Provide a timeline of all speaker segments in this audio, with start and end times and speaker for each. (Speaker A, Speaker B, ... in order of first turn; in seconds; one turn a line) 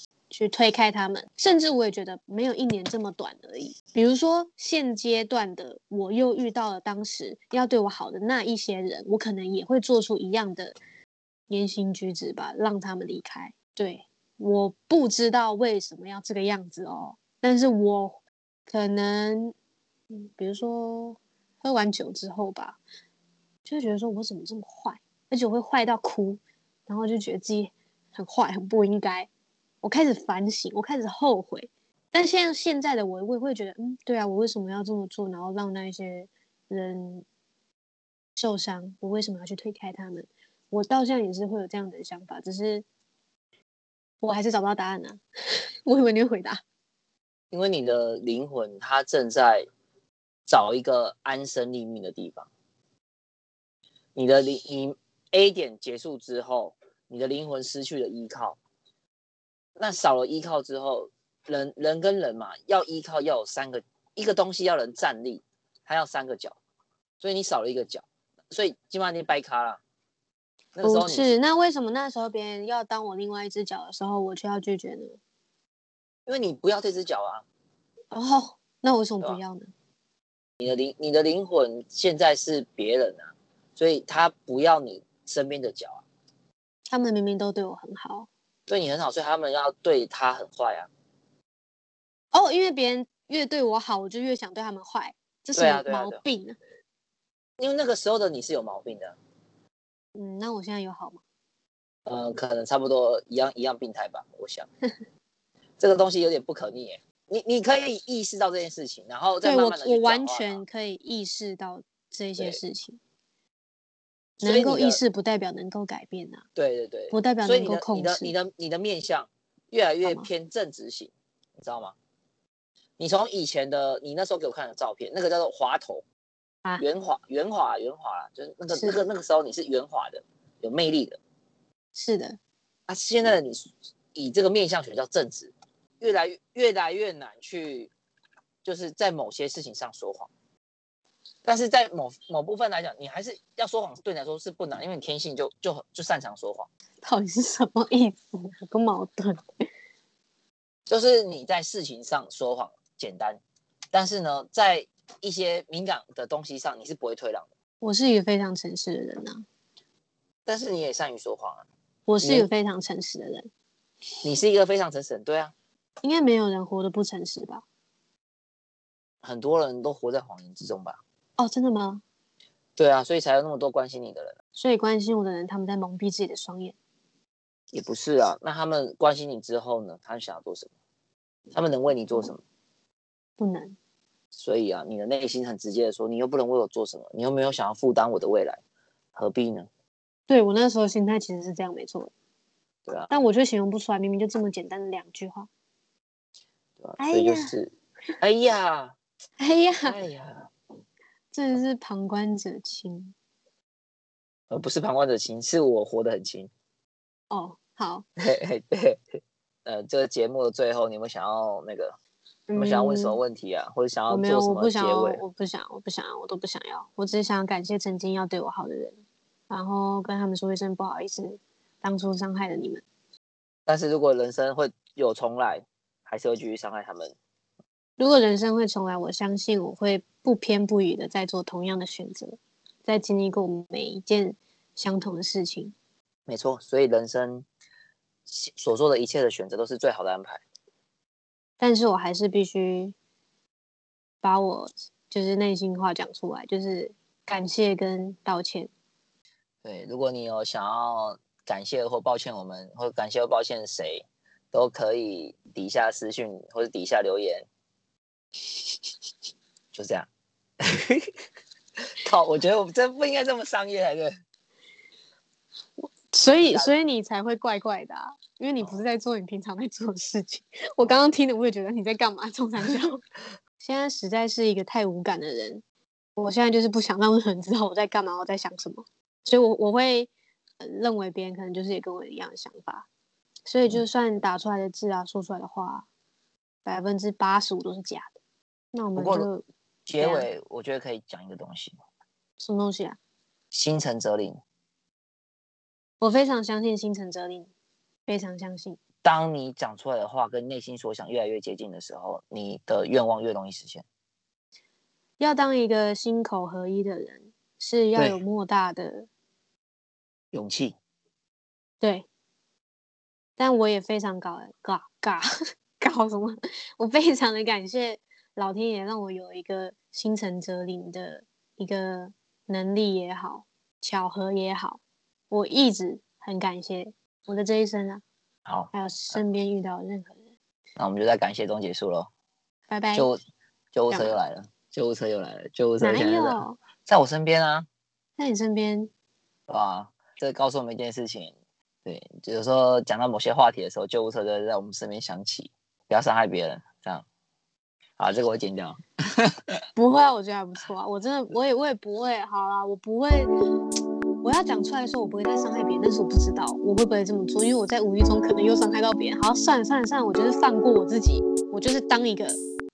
Speaker A: 0.3-10.8
Speaker A: 11.5-19.5
Speaker A: 20.1-22.8
Speaker A: 23.6-29.3
Speaker A: 29.8-37.2
Speaker A: 38.4-42.9
Speaker A: 44.2-45.2
Speaker A: 45.9-46.6
Speaker B: 47.5-49.7
Speaker B: 50.5-52.5
Speaker B: 54.1-58.6
Speaker B: 59.8-66.6
Speaker B: 67.2-69.8
Speaker B: 70.8-71.3
Speaker A: 70.8-75.2
Speaker B: 76.3-77.4
Speaker A: 78.1-79.7
Speaker B: 80.6-86.0
Speaker A: 86.9-88.3
Speaker B: 88.7-90.9
Speaker A: 92.3-96.6
Speaker B: 95.5-96.2
Speaker B: 97.6-99.2
Speaker A: 100.1-101.2
Speaker B: 102.0-104.7
Speaker B: 105.8-110.6
Speaker A: 109.4-113.0
Speaker A: 114.4-116.4
Speaker B: 114.4-115.0
Speaker B: 116.5-121.9
Speaker A: 117.1-118.3
Speaker B: 123.0-126.0
Speaker B: 126.8-131.2
Speaker A: 128.7-129.0
Speaker A: 131.9-132.4
Speaker B: 132.9-137.9
Speaker B: 138.6-140.3
Speaker B: 141.4-146.7
Speaker A: 147.0-149.4
Speaker B: 150.9-153.4
Speaker B: 153.9-157.5
Speaker A: 157.8-159.4
Speaker B: 160.4-161.6
Speaker A: 162.1-163.5
Speaker B: 162.2-162.5
Speaker B: 164.2-165.5
Speaker A: 166.0-167.6
Speaker B: 169.2-171.0
Speaker A: 171.4-172.0
Speaker B: 172.8-174.3
Speaker A: 174.6-176.8
Speaker B: 177.7-180.7
Speaker B: 181.5-182.4
Speaker A: 183.4-183.8
Speaker B: 184.3-188.6
Speaker B: 189.1-189.7
Speaker A: 190.3-192.1
Speaker B: 192.8-193.1
Speaker A: 193.1-195.5
Speaker B: 196.8-198.9
Speaker A: 197.0-197.5
Speaker A: 199.4-200.0
Speaker B: 199.8-200.5
Speaker A: 201.3-203.1
Speaker B: 204.5-206.5
Speaker A: 207.3-208.0
Speaker B: 208.2-209.0
Speaker B: 209.6-212.0
Speaker A: 212.5-213.2
Speaker B: 212.5-215.2
Speaker A: 214.1-219.0
Speaker A: 219.5-222.8
Speaker B: 223.7-227.1
Speaker A: 228.0-235.7
Speaker B: 236.3-237.4
Speaker B: 238.3-240.4
Speaker A: 241.6-242.9
Speaker A: 244.2-248.7
Speaker B: 249.6-257.5
Speaker B: 259.7-260.1
Speaker B: 260.6-261.2
Speaker B: 262.0-264.1
Speaker A: 265.8-273.0
Speaker B: 266.3-266.8
Speaker A: 273.6-275.6
Speaker A: 276.2-282.9
Speaker A: 283.4-285.9
Speaker A: 286.6-288.1
Speaker A: 288.7-289.4
Speaker B: 289.0-289.3
Speaker B: 289.9-291.8
Speaker A: 290.0-290.3
Speaker A: 292.4-293.0
Speaker B: 293.5-294.4
Speaker A: 296.0-297.5
Speaker A: 298.1-298.8
Speaker B: 299.0-303.8
Speaker A: 305.2-309.1
Speaker B: 310.3-310.8
Speaker A: 311.8-312.1
Speaker A: 313.4-315.3
Speaker A: 315.8-328.0
Speaker B: 328.4-329.2
Speaker A: 328.7-330.2
Speaker B: 330.8-332.1
Speaker A: 332.7-333.1
Speaker B: 332.9-333.2
Speaker B: 333.7-337.7
Speaker A: 333.9-334.2
Speaker A: 335.8-336.6
Speaker A: 338.2-338.9
Speaker B: 339.5-341.3
Speaker B: 341.8-347.0
Speaker B: 348.0-349.3
Speaker A: 349.8-353.3
Speaker A: 354.2-362.4